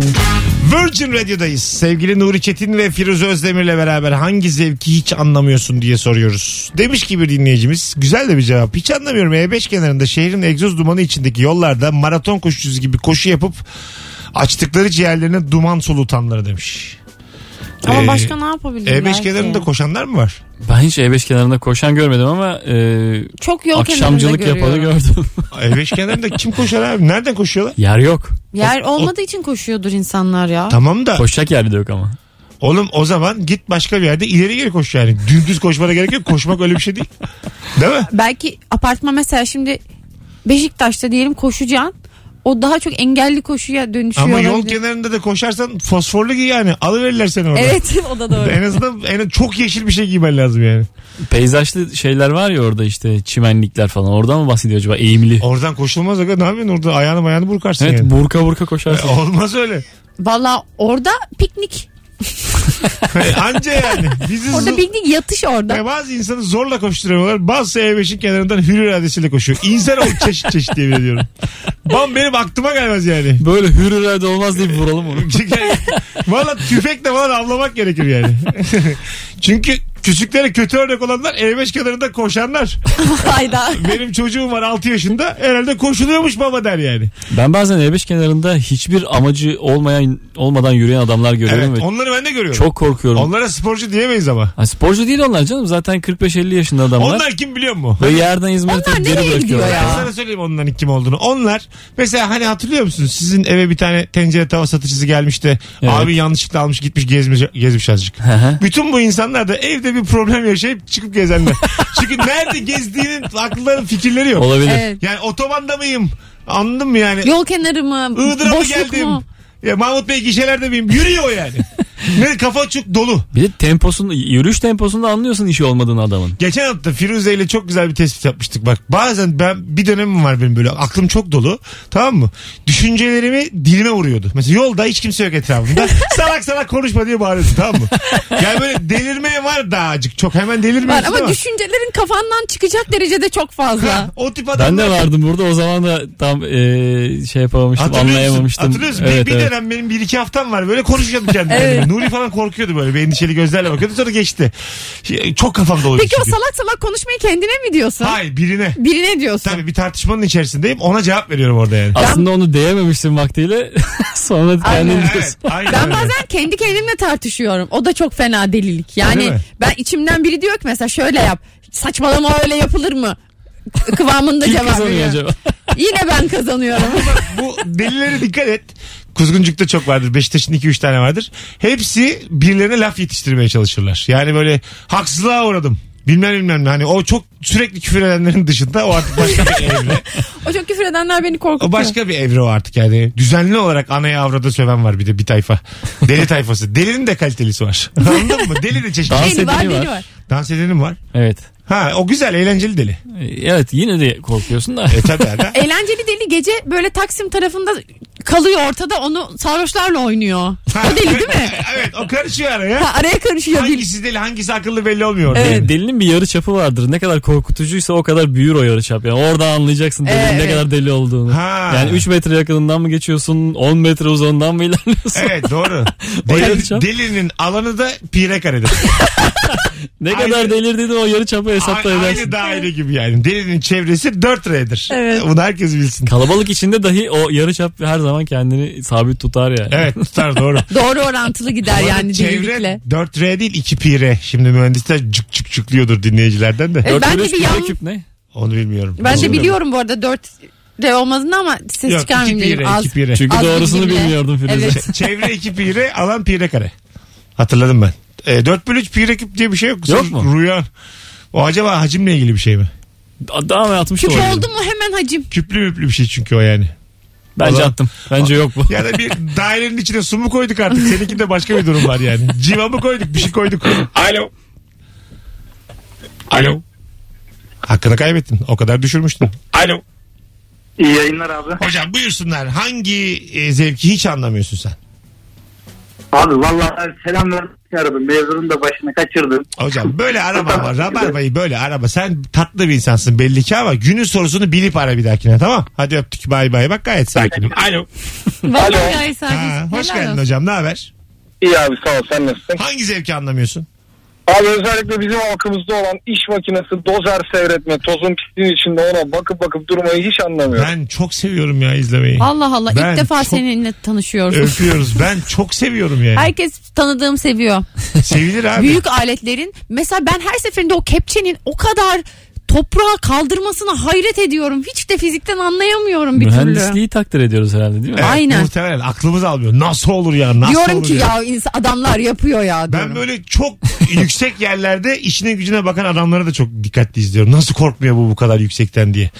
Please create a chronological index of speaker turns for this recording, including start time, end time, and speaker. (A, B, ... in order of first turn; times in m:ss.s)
0:00.6-0:13.6 A
0:14.3-0:17.0 A
0:17.8-0:19.7 B
0:17.8-0:18.3 A
0:18.8-0:20.4 A
0:20.6-0:25.5 C
0:23.4-0:24.9 B
0:25.5-0:27.8 A
0:27.8-0:28.4 C
0:28.5-0:30.8 B
0:28.6-0:29.1 A
0:30.7-0:31.2 A
0:31.2-0:32.2 C
0:32.6-0:37.1 A
0:37.7-0:38.1 A
0:38.1-0:39.8 B
0:40.4-0:44.8 B
0:44.2-0:50.9 A
0:47.5-0:48.6 B
0:51.3-0:55.4 C
0:55.4-0:58.1 A
0:57.8-0:59.1 C
0:58.9-0:59.8 A
1:00.2-1:03.0 B
1:03.1-1:04.8 A
1:04.5-1:05.8 B
1:05.7-1:11.3 A
1:11.8-1:13.4 A
1:13.4-1:16.0 C
1:14.6-1:23.0 A
1:23.0-1:24.0 B
1:23.7-1:27.1 A
1:27.3-1:31.8 C
1:31.4-1:34.5 A
1:32.5-1:33.3 C
1:34.6-1:37.2 C
1:37.0-1:38.2 A
1:38.0-1:40.0 C
1:38.7-1:40.1 B
1:39.5-1:57.3 A
1:45.8-1:46.1 C
1:48.2-1:48.6 C
1:54.4-1:54.8 C
1:54.6-1:55.0 B
1:57.2-1:59.2 B
1:58.2-2:03.3 A
2:03.3-2:06.4 C
2:06.4-2:21.4 A
2:20.8-2:24.1 B
2:23.8-2:25.1 A
2:24.6-2:29.5 C
2:27.8-2:36.4 A
2:31.5-2:31.9 B
2:35.9-2:38.2 B
2:38.0-2:38.8 A
2:38.8-2:39.6 B
2:39.4-2:42.0 A
2:41.9-2:45.6 C
2:42.0-2:42.2 B
2:44.6-2:45.1 B
2:44.8-2:46.1 A
2:45.7-2:53.2 B
2:49.0-2:49.4 A
2:53.7-2:55.2 B
2:54.4-2:55.3 C
2:55.7-2:57.3 B
2:56.7-3:10.1 A
3:09.3-3:11.9 B
3:11.6-3:19.6 A
3:18.0-3:18.5 B
3:19.1-3:19.9 C
3:19.1-3:20.0 B
3:20.3-3:21.0 A
3:21.1-3:21.4 C
3:21.7-3:23.0 A
3:23.1-3:25.3 C
3:24.9-3:25.6 A
3:25.5-3:31.6 B
3:30.7-3:32.9 A
3:32.8-3:33.8 B
3:33.5-3:35.7 A
3:35.3-3:35.7 B
3:35.3-3:45.4 C
3:40.0-3:40.6 B
3:41.3-3:42.0 A
3:45.1-3:48.9 A
3:46.1-3:46.8 C
3:50.0-3:52.3 C
3:50.1-3:50.5 A
3:51.6-3:56.1 A
3:54.9-3:55.2 B
3:56.1-4:00.1 C
3:59.7-4:00.7 A
4:00.7-4:02.8 B
4:01.6-4:06.9 A
4:06.8-4:07.8 B
4:06.8-4:08.0 C
4:08.3-4:09.5 A
4:09.0-4:14.8 B
4:09.0-4:09.4 C
4:11.8-4:13.2 A
4:13.1-4:14.9 C
4:14.7-4:16.7 A
4:17.4-4:20.7 A
4:19.9-4:20.3 C
4:21.3-4:22.7 A
4:23.3-4:24.5 C
4:24.0-4:25.3 B
4:25.3-4:26.7 A
4:27.4-4:28.8 C
4:27.4-4:33.9 A
4:34.0-4:34.3 D
4:36.3-4:36.6 A
4:37.6-4:39.5 A
4:39.5-4:39.8 D
4:40.8-4:41.6 E
4:41.6-4:44.8 A
4:46.1-4:49.5 E
4:49.6-4:57.6 A
4:57.4-4:57.9 D
4:58.4-5:00.2 B
4:58.5-4:59.0 D
4:59.3-5:00.9 A
5:01.4-5:02.6 D
5:02.6-5:03.6 A
5:04.3-5:10.7 D
5:10.5-5:13.4 A
5:12.2-5:14.7 B
5:14.3-5:16.3 A
5:16.1-5:17.7 B
5:18.0-5:18.8 A
5:18.6-5:26.8 B
5:26.1-5:28.1 C
5:28.0-5:31.1 A
5:28.0-5:28.5 B
5:30.4-5:33.0 B
5:32.7-5:39.1 A